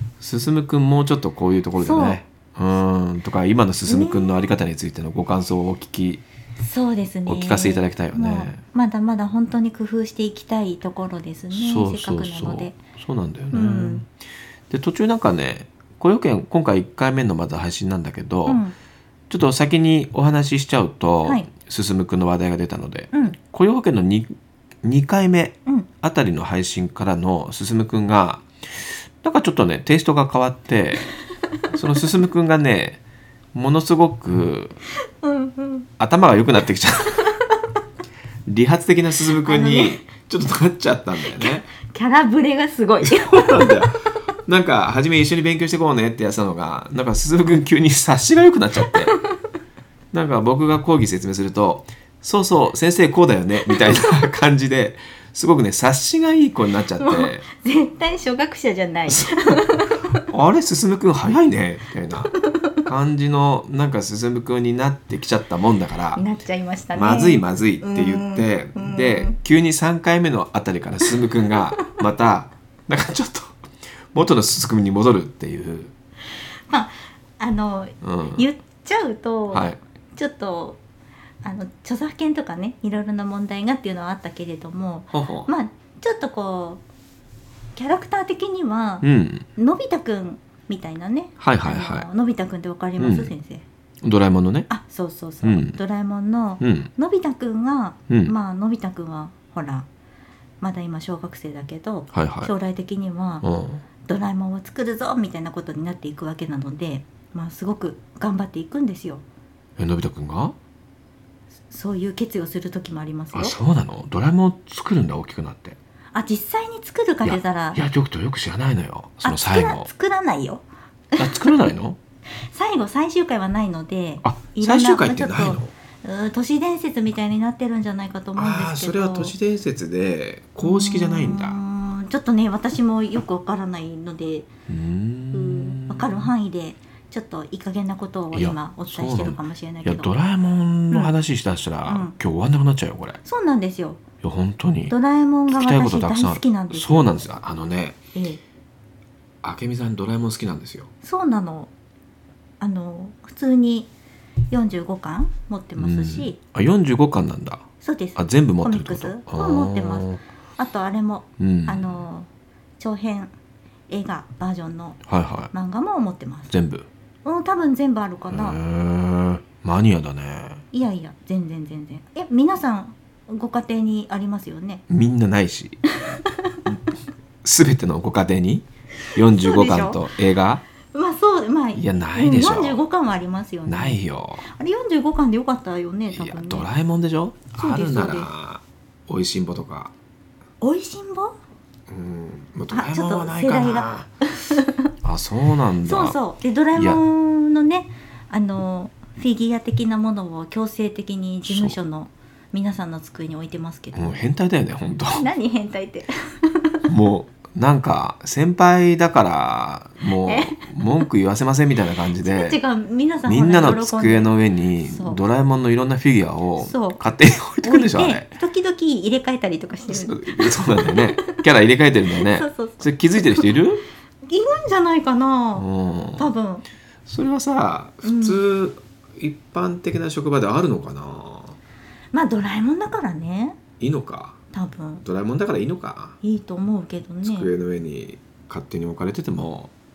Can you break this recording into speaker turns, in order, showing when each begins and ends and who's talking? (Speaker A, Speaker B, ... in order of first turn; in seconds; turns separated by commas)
Speaker A: 0.2-6.2, Speaker B: 1.8-2.2, Speaker B: 3.9-4.6, Speaker B: 6.6-12.8, Speaker A: 7.2-8.6, Speaker A: 11.5-14.1, Speaker B: 13.5-14.0, Speaker A: 14.7-18.6, Speaker B: 18.5-18.8, Speaker A: 19.3-31.1, Speaker A: 31.7-33.0, Speaker A: 33.5-34.8, Speaker B: 35.2-35.9, Speaker A: 36.0-37.3, Speaker A: 38.5-41.7, Speaker B: 39.4-40.0, Speaker B: 41.3-43.9, Speaker A: 43.0-49.1, Speaker A: 50.1-57.4, Speaker B: 57.0-60.2, Speaker A: 59.1-59.6, Speaker A: 60.3-62.3, Speaker A: 62.9-66.2, Speaker B: 66.2-69.4, Speaker A: 66.9-73.6, Speaker A: 74.1-75.9, Speaker B: 76.7-80.8, Speaker A: 78.0-78.5, Speaker A: 79.5-79.8, Speaker B: 81.4-86.8, Speaker A: 85.1-85.5, Speaker B: 87.8-93.6, Speaker A: 89.0-89.5, Speaker A: 91.4-92.1, Speaker A: 93.0-93.3, Speaker A: 94.0-94.7, Speaker B: 94.7-99.9, Speaker A: 95.4-95.8, Speaker A: 96.6-96.9, Speaker A: 98.1-98.3, Speaker B: 100.6-103.5, Speaker A: 102.1-102.5, Speaker A: 103.4-103.8, Speaker B: 104.1-109.2, Speaker A: 109.8-110.5, Speaker B: 111.7-113.5, Speaker A: 113.3-115.8, Speaker B: 116.1-117.8, Speaker A: 117.2-119.9, Speaker B: 119.2-121.6, Speaker A: 121.2-122.0, Speaker B: 122.5-129.3, Speaker A: 124.2-125.7, Speaker A: 128.4-131.6, Speaker B: 130.6-134.5, Speaker A: 134.7-136.3, Speaker B: 135.3-140.1, Speaker A: 138.3-143.2, Speaker B: 141.9-142.1, Speaker B: 143.2-144.0, Speaker A: 144.2-144.9, Speaker B: 144.9-147.2, Speaker A: 145.5-148.0, Speaker B: 148.1-148.4, Speaker A: 149.4-150.9, Speaker B: 151.0-151.7, Speaker B: 152.6-153.9, Speaker B: 154.5-156.4, Speaker A: 155.8-160.2, Speaker B: 157.8-163.3, Speaker A: 161.4-161.9, Speaker B: 163.9-165.0, Speaker A: 165.1-165.5, Speaker B: 165.5-166.5, Speaker A: 166.5-166.9, Speaker B: 167.2-168.6, Speaker A: 168.3-170.6, Speaker B: 170.7-174.8, Speaker A: 174.9-175.8, Speaker B: 176.0-176.6, Speaker A: 177.4-180.6, Speaker B: 179.1-180.0, Speaker B: 180.9-186.7, Speaker A: 181.7-182.8, Speaker A: 183.7-184.4, Speaker A: 186.1-189.9, Speaker B: 187.6-188.3, Speaker B: 190.6-191.4, Speaker A: 191.9-194.1, Speaker B: 192.7-194.9, Speaker A: 195.0-196.2, Speaker B: 195.8-204.2, Speaker A: 196.7-197.0, Speaker A: 201.4-201.8, Speaker A: 203.9-205.2, Speaker B: 205.1-206.9, Speaker A: 206.9-212.6, Speaker B: 210.2-211.0, Speaker B: 212.2-215.2, Speaker A: 213.2-218.3, Speaker B: 216.6-217.0, Speaker B: 217.6-221.4, Speaker A: 219.9-223.8, Speaker B: 222.1-223.5, Speaker B: 224.3-226.6, Speaker A: 225.6-226.3, Speaker A: 227.1-231.6, Speaker B: 228.0-228.4, Speaker B: 232.1-233.6, Speaker A: 233.8-234.4, Speaker B: 234.5-235.0, Speaker A: 235.0-236.2, Speaker B: 236.2-237.5, Speaker A: 237.2-239.7